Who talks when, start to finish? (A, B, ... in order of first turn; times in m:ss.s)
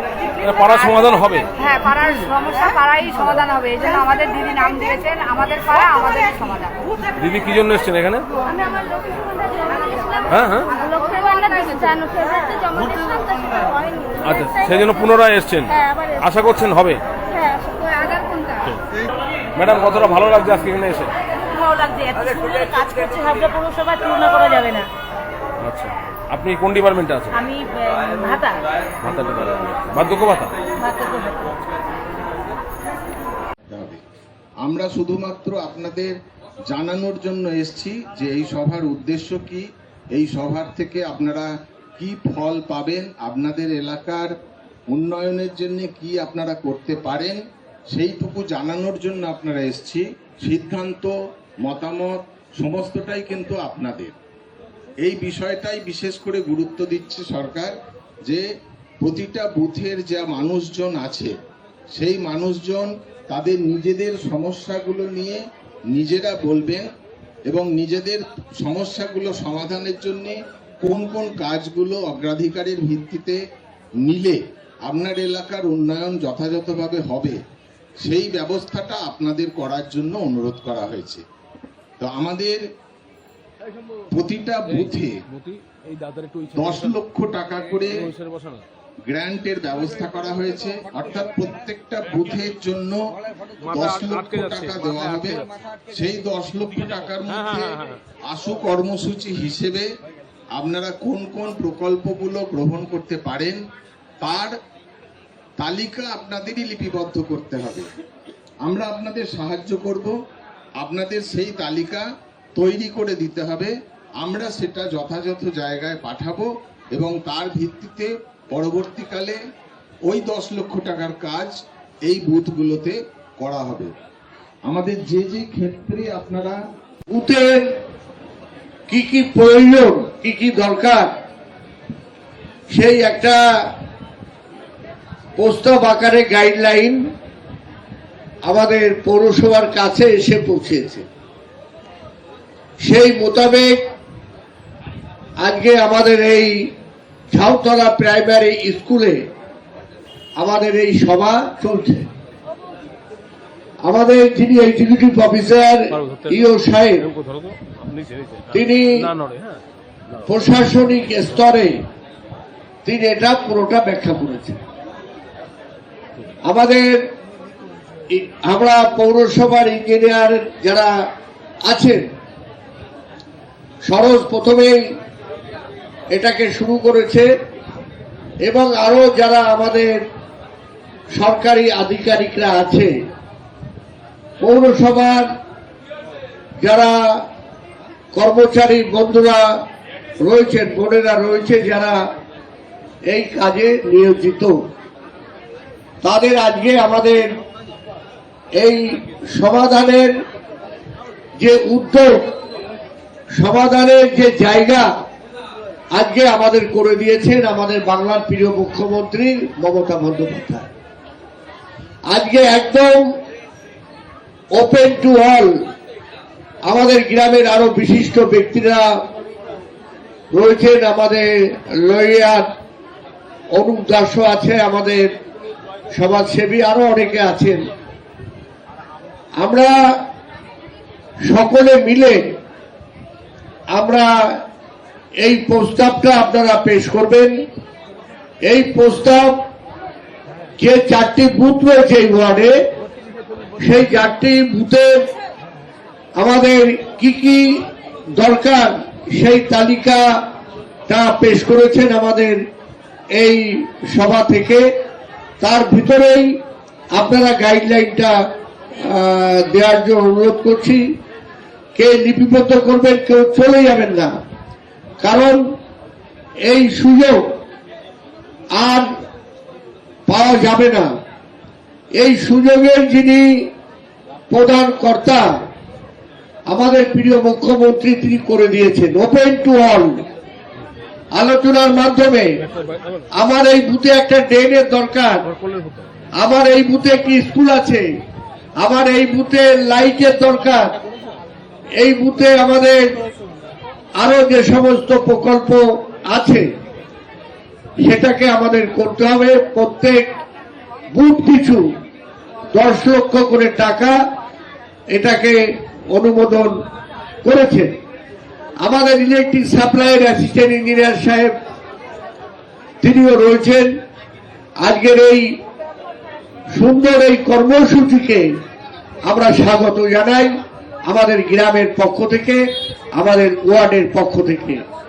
0:00.4-0:01.5 A
0:00.7-0:01.1 B
0:01.6-0:06.8 B
0:07.2-0:08.3 A
0:09.7-0:12.0 B
0:10.3-0:10.8 A
0:11.4-0:14.1 C
0:14.2-0:17.0 A
0:17.4-0:17.8 C
0:17.8-0:18.6 B
0:19.6-0:21.1 A
0:21.5-0:24.9 C
0:25.6-0:27.4 A
0:27.3-0:28.6 C
0:29.0-0:30.5 A
0:30.8-0:31.6 C
0:33.7-0:34.0 D
0:34.6-0:36.2 D
0:36.7-0:44.3 D
0:44.9-0:47.4 D
0:47.9-0:51.1 D
0:51.6-0:54.2 D
0:55.0-0:57.7 D
0:59.0-1:01.3 D
1:02.0-1:05.4 D
1:05.9-1:06.9 D
1:07.5-1:13.4 D
1:14.0-1:17.4 D
1:18.0-1:21.2 D
1:22.0-1:22.6 D
1:24.1-1:25.2 D
1:24.7-1:27.0 A
1:26.5-1:28.1 D
1:27.8-1:28.6 A
1:29.1-1:33.0 D
1:33.6-1:35.5 A
1:33.7-1:39.9 D
1:37.3-1:38.0 A
1:40.6-1:43.6 D
1:44.2-1:44.6 D
1:45.6-1:47.9 D
1:48.7-1:50.1 D
1:50.8-1:52.0 D
1:52.6-1:59.4 D
2:00.1-2:01.5 D
2:02.1-2:03.9 D
2:04.7-2:06.6 D
2:07.1-2:07.7 E
2:08.9-2:11.1 E
2:12.7-2:13.4 E
2:15.4-2:17.0 E
2:18.4-2:21.0 E
2:22.8-2:23.9 E
2:25.4-2:26.6 E
2:27.3-2:29.2 E
2:30.4-2:32.1 E
2:33.8-2:37.0 E
2:35.9-2:39.6 A
2:38.5-2:38.8 E
2:40.3-2:41.7 E
2:42.8-2:44.6 E
2:46.5-2:47.0 E
2:48.2-2:50.9 E
2:51.7-2:52.0 E
2:53.8-2:54.8 E
2:56.1-2:57.3 E
2:58.4-3:00.0 E
3:01.1-3:02.9 E
3:04.4-3:05.3 E
3:06.6-3:06.9 E
3:08.1-3:09.4 E
3:10.2-3:12.0 E
3:13.1-3:14.6 E
3:16.0-3:17.3 E
3:18.6-3:20.1 E
3:21.4-3:22.2 E
3:23.4-3:24.9 E
3:25.9-3:30.7 E
3:32.1-3:33.0 E
3:34.6-3:35.5 E
3:36.7-3:38.9 E
3:40.3-3:41.3 E
3:41.8-3:42.4 E
3:43.5-3:45.1 E
3:45.9-3:47.6 E
3:49.4-3:49.7 E
3:51.3-3:52.2 E
3:53.7-3:54.1 E
3:55.2-3:57.4 E
3:58.4-3:59.4 E
4:00.6-4:02.5 E
4:03.6-4:05.0 E
4:06.2-4:07.6 E
4:08.2-4:10.0 E
4:10.9-4:12.4 E
4:13.1-4:14.7 E
4:15.4-4:16.4 E
4:16.9-4:18.1 E
4:18.8-4:20.8 E
4:21.8-4:24.1 E
4:25.0-4:25.4 E
4:26.5-4:27.2 E
4:28.5-4:28.9 E
4:30.1-4:30.9 E
4:32.0-4:33.5 E
4:34.3-4:35.3 E
4:36.5-4:40.0 E
4:41.1-4:42.3 E
4:42.4-4:43.0 A
4:43.2-4:45.2 E
4:45.3-4:45.9 A
4:46.2-4:47.8 E
4:48.6-4:50.7 E
4:51.8-4:52.8 E
4:54.0-4:56.4 E
4:57.8-5:00.1 E
5:00.9-5:01.7 E
5:02.5-5:04.0 E
5:04.9-5:05.4 E
5:05.9-5:06.6 E
5:07.2-5:07.7 E
5:08.6-5:11.3 E
5:12.8-5:13.7 E
5:14.6-5:15.2 E
5:16.6-5:18.2 E
5:19.1-5:20.3 E
5:20.9-5:22.4 E
5:23.0-5:24.6 E